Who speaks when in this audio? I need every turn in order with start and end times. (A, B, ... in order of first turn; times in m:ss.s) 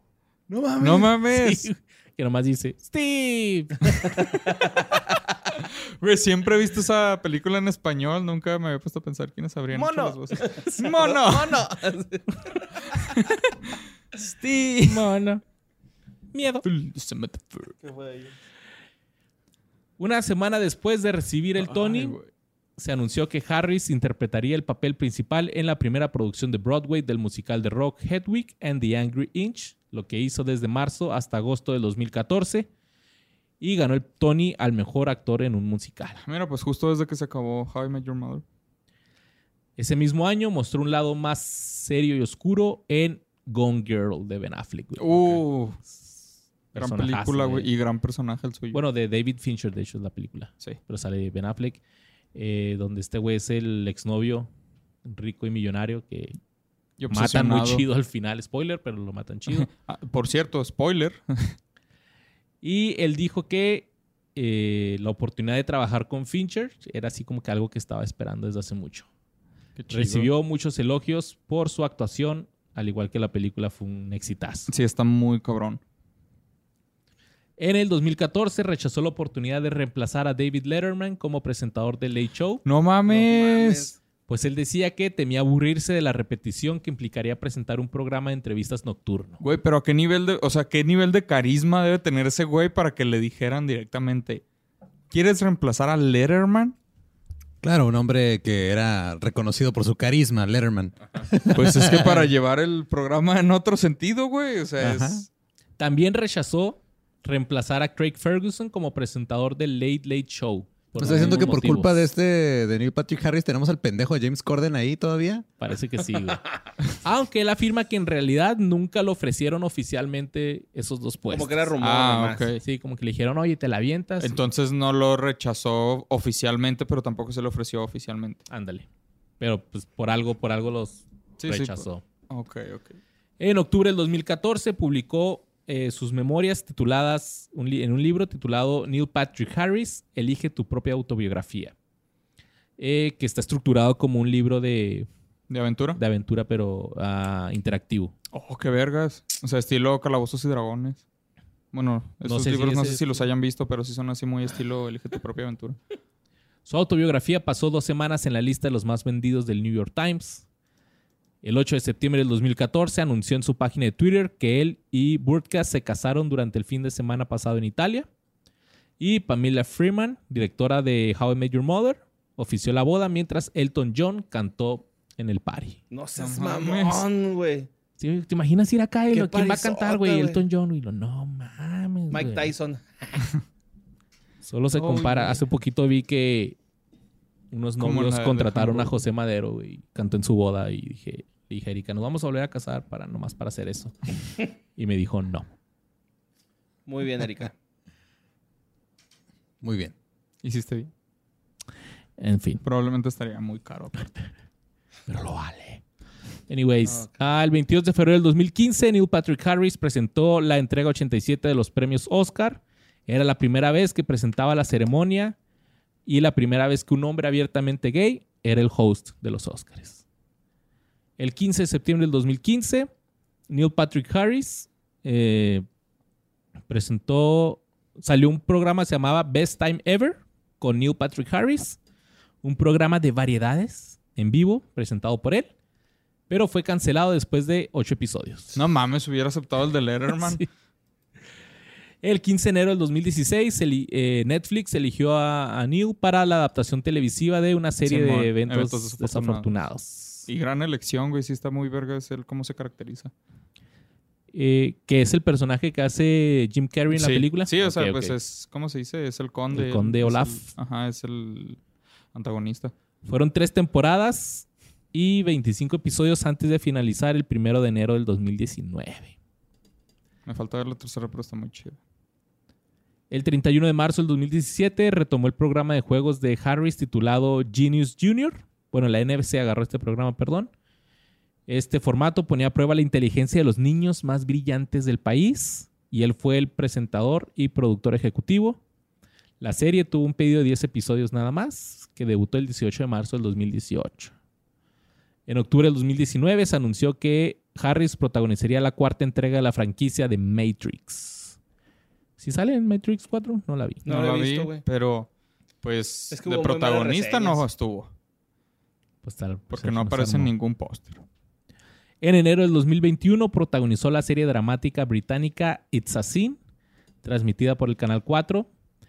0:00.5-0:01.1 A
0:00.8-0:01.7 B
0:01.3-0:04.1 C
0:04.2-0:05.0 A
0:06.0-0:11.7 B
0:09.7-0:13.1 A
0:13.1-0:13.3 B
0:14.8-0:15.4 C
0:16.3-0:16.6 C
0:16.6-0:17.8 B
0:17.8-0:18.3 A
0:20.0-0:22.2 C
0:21.6-0:22.3 B
0:22.8-0:32.7 C
0:33.6-0:36.2 C
0:36.2-0:38.4 B
0:39.8-0:46.2 C
0:45.0-0:45.8 B
0:46.7-0:47.7 C
0:46.8-0:48.8 B
0:48.7-0:51.8 C
0:52.4-0:54.5 C
0:55.0-0:56.4 C
0:57.0-0:57.9 B
0:57.1-0:59.7 C
0:59.5-1:01.6 B
1:02.6-1:09.1 C
1:09.8-1:10.3 B
1:09.9-1:14.7 C
1:14.7-1:15.8 B
1:17.6-1:22.6 C
1:22.6-1:23.9 B
1:23.1-1:24.0 A
1:24.3-1:29.4 C
1:29.4-1:34.4 B
1:35.1-1:36.8 B
1:37.6-1:42.3 D
1:41.5-1:45.3 B
1:44.8-1:45.2 D
1:45.8-1:52.1 C
1:51.0-1:55.4 D
1:55.6-2:01.7 C
2:01.3-2:02.5 A
2:01.8-2:02.6 B
2:02.6-2:04.4 C
2:04.2-2:08.4 B
2:08.5-2:08.9 C
2:09.4-2:12.0 C
2:11.4-2:13.0 B
2:13.4-2:21.7 C
2:22.8-2:25.1 C
2:25.5-2:26.0 B
2:26.0-2:28.1 C
2:28.3-2:31.0 B
2:31.7-2:35.8 B
2:32.2-2:33.2 C
2:36.7-2:40.4 C
2:41.4-2:48.1 C
2:49.0-2:55.8 C
2:55.9-2:57.7 A
2:56.2-2:57.1 B
2:58.0-3:02.5 C
2:59.1-3:00.4 A
3:02.1-3:03.3 A
3:04.4-3:06.6 C
3:04.8-3:05.4 A
3:07.5-3:14.0 C
3:07.8-3:08.9 B
3:14.8-3:15.5 C
3:16.9-3:17.6 A
3:19.6-3:19.9 D
3:20.4-3:20.9 B
3:22.2-3:22.6 C
3:22.6-3:24.1 B
3:25.1-3:25.8 C
3:26.5-3:35.4 C
3:26.8-3:27.1 A
3:36.1-3:40.0 C
3:41.2-3:42.9 C
3:43.5-3:45.7 C
3:46.7-3:51.8 C
3:52.4-3:55.5 C
3:56.3-3:58.6 C
3:58.6-4:00.4 B
4:00.2-4:00.5 C
4:02.0-4:10.3 C
4:07.8-4:09.5 B
4:10.3-4:13.1 B
4:14.3-4:18.2 C
4:16.9-4:21.6 B
4:19.5-4:20.5 C
4:22.1-4:22.7 B
4:23.0-4:29.2 C
4:30.3-4:31.8 B
4:33.1-4:40.5 C
4:41.5-4:48.6 C
4:49.4-4:54.1 C
4:55.3-5:01.4 C
5:02.2-5:03.9 C
5:03.8-5:04.6 A
5:03.9-5:05.1 B
5:05.6-5:07.9 B
5:06.1-5:07.4 A
5:09.0-5:10.3 C
5:09.5-5:11.0 B
5:12.0-5:16.4 C
5:17.0-5:18.5 C